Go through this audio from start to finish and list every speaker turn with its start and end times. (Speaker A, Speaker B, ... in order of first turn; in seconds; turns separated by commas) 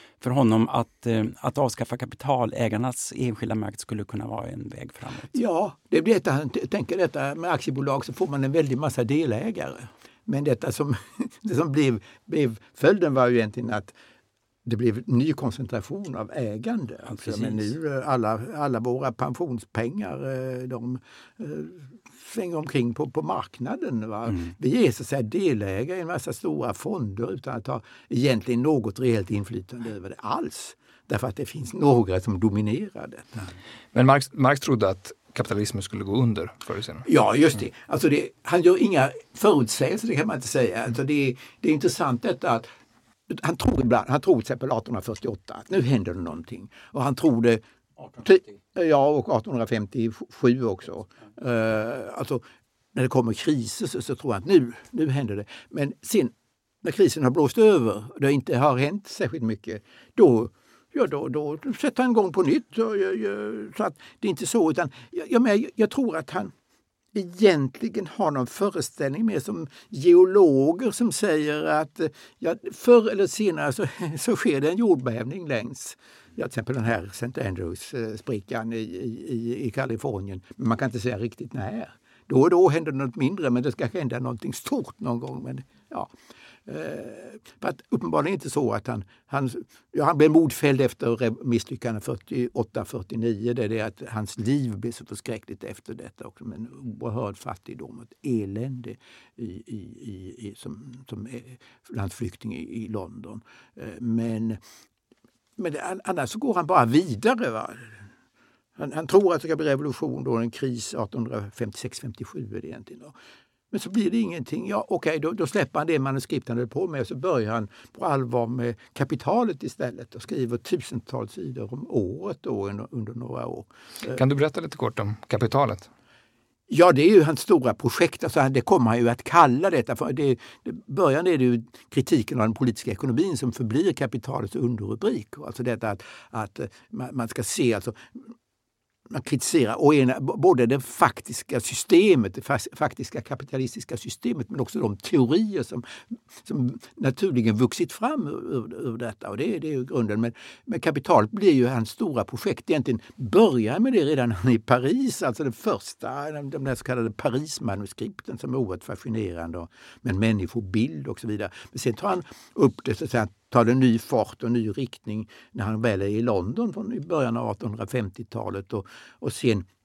Speaker A: 0.2-5.3, Speaker B: 5.3-13.9, Speaker B: 14.6-33.5, Speaker A: 17.1-17.7, Speaker C: 33.9-37.1, Speaker B: 37.0-42.7, Speaker B: 43.3-47.6, Speaker B: 48.1-52.4, Speaker B: 52.9-66.5, Speaker B: 67.1-86.1, Speaker B: 86.7-104.6, Speaker B: 105.6-108.1, Speaker B: 108.8-113.2, Speaker B: 113.7-124.2, Speaker C: 124.1-125.9, Speaker B: 126.7-138.2, Speaker B: 139.1-169.7